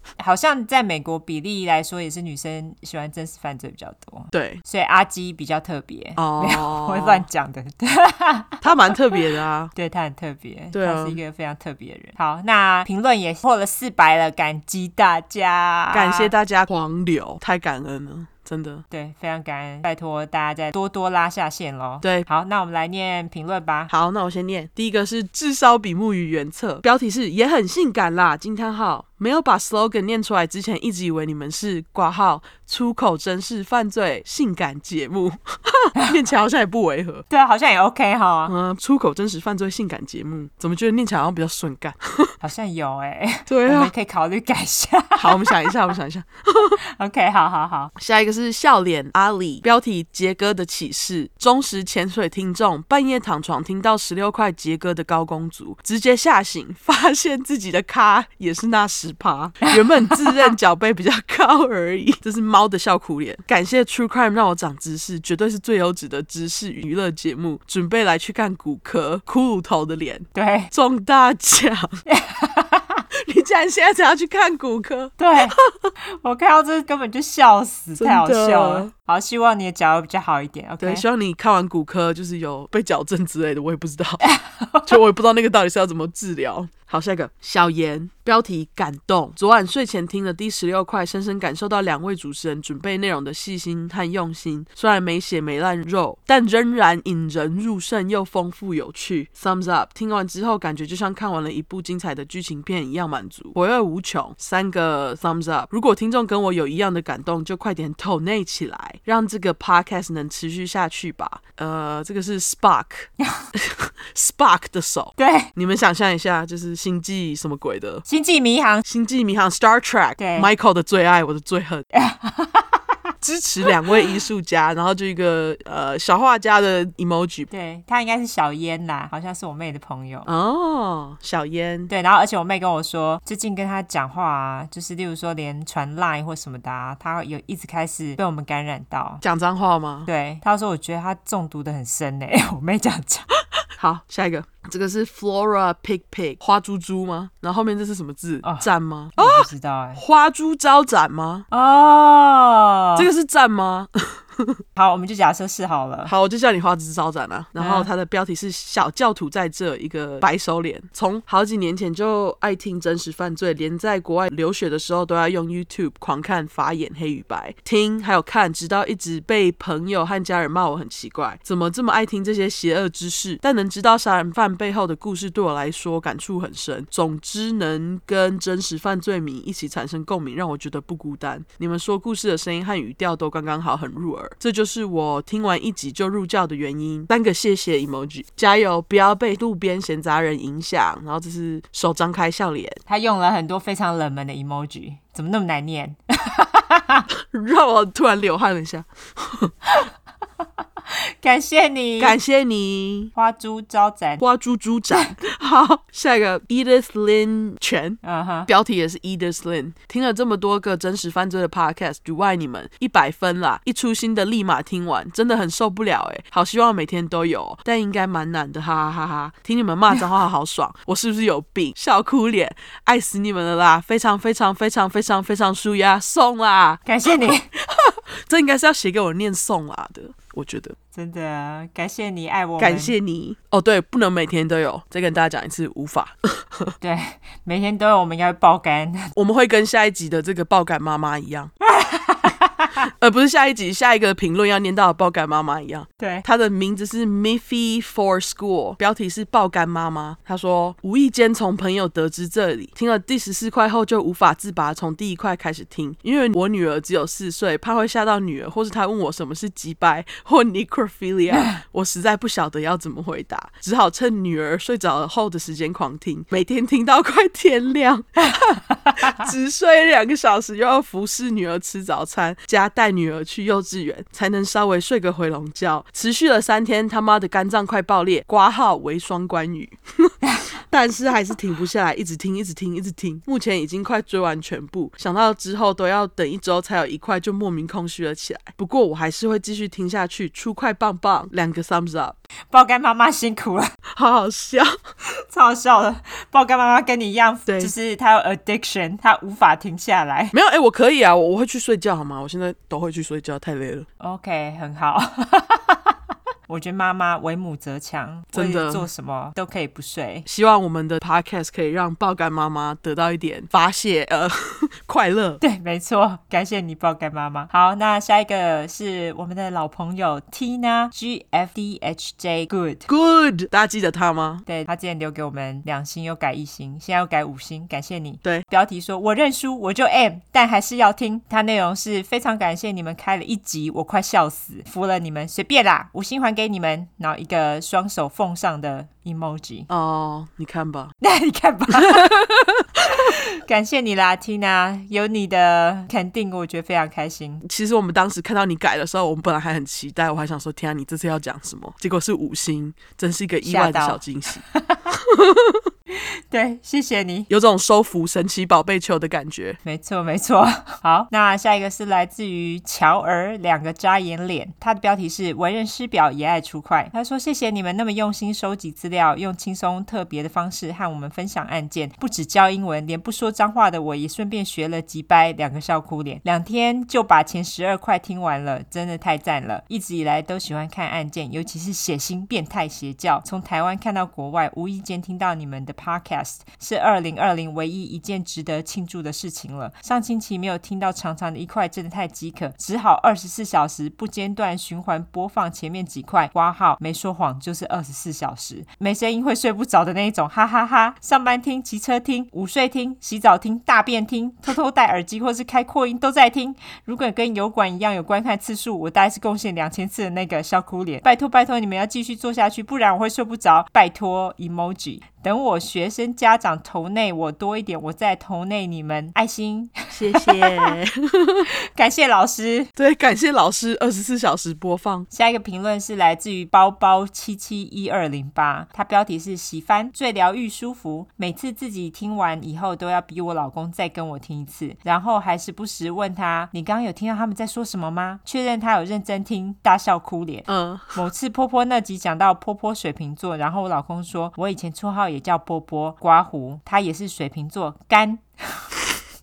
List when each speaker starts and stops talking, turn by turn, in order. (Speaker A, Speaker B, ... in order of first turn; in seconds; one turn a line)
Speaker A: 0.2-9.2
Speaker B: 4.3-4.6
Speaker B: 6.2-7.3
Speaker B: 8.6-9.7
Speaker A: 9.8-16.3
Speaker B: 10.7-11.2
Speaker B: 15.9-18.8
Speaker A: 18.9-23.9
Speaker B: 22.0-22.3
Speaker B: 23.9-37.3
Speaker A: 37.3-38.5
Speaker B: 38.5-42.3
Speaker A: 42.4-45.7
Speaker B: 43.5-43.9
Speaker B: 45.2-46.8
Speaker A: 47.0-47.9
Speaker B: 48.0-72.0
Speaker A: 70.3-70.7
Speaker A: 72.1-73.0
Speaker B: 73.1-75.9
Speaker A: 75.2-75.6
Speaker A: 76.2-81.1
Speaker B: 78.0-78.9
Speaker B: 80.8-84.3
Speaker A: 84.2-85.0
Speaker B: 84.9-118.1
Speaker A: 115.2-115.5
Speaker A: 118.1-118.9
Speaker B: 118.9-121.8
Speaker A: 120.2-120.5
Speaker A: 121.9-122.8
Speaker B: 123.2-127.5
Speaker A: 127.5-130.3
Speaker B: 130.3-131.9
Speaker A: 131.9-139.2
Speaker B: 139.2-140.1
Speaker A: 140.1-143.3
Speaker B: 143.8-149.5
Speaker A: 148.4-150.0
Speaker B: 150.0-151.4
Speaker A: 151.5-153.1
Speaker B: 153.0-154.6
Speaker A: 154.8-156.1
Speaker B: 156.1-192.8
Speaker A: 157.6-157.9
Speaker A: 192.9-197.1
Speaker B: 197.2-199.5
Speaker A: 201.2-202.2
Speaker B: 202.0-203.1
Speaker A: 203.2-204.2
Speaker B: 204.2-230.8
Speaker A: 208.0-208.5
Speaker A: 226.9-227.5
Speaker A: 230.9-232.9
Speaker B: 232.6-236.7
Speaker A: 236.8-239.1
Speaker B: 239.2-241.5
Speaker A: 241.6-242.9
Speaker B: 242.9-292.2
Speaker A: 246.0-246.2
Speaker A: 268.8-269.2
Speaker A: 292.5-293.7
Speaker B: 293.9-294.8
Speaker A: 295.3-300.4
Speaker B: 297.5-297.7
Speaker B: 300.3-303.9
Speaker A: 304.0-306.0
Speaker A: 306.5-310.3
Speaker B: 308.3-308.9
Speaker B: 310.3-315.4
Speaker A: 315.4-322.9
Speaker B: 322.9-324.4
Speaker A: 324.5-339.7
Speaker B: 339.7-340.9
Speaker A: 341.0-342.1
Speaker B: 341.9-343.1
Speaker A: 342.9-347.4
Speaker B: 347.4-355.7
Speaker A: 353.4-354.9
Speaker A: 356.0-357.3
Speaker B: 357.3-359.6
Speaker A: 359.6-420.7
Speaker B: 419.9-421.5
Speaker A: 421.8-422.7
Speaker B: 422.8-425.1
Speaker A: 425.1-448.7
Speaker B: 440.5-441.0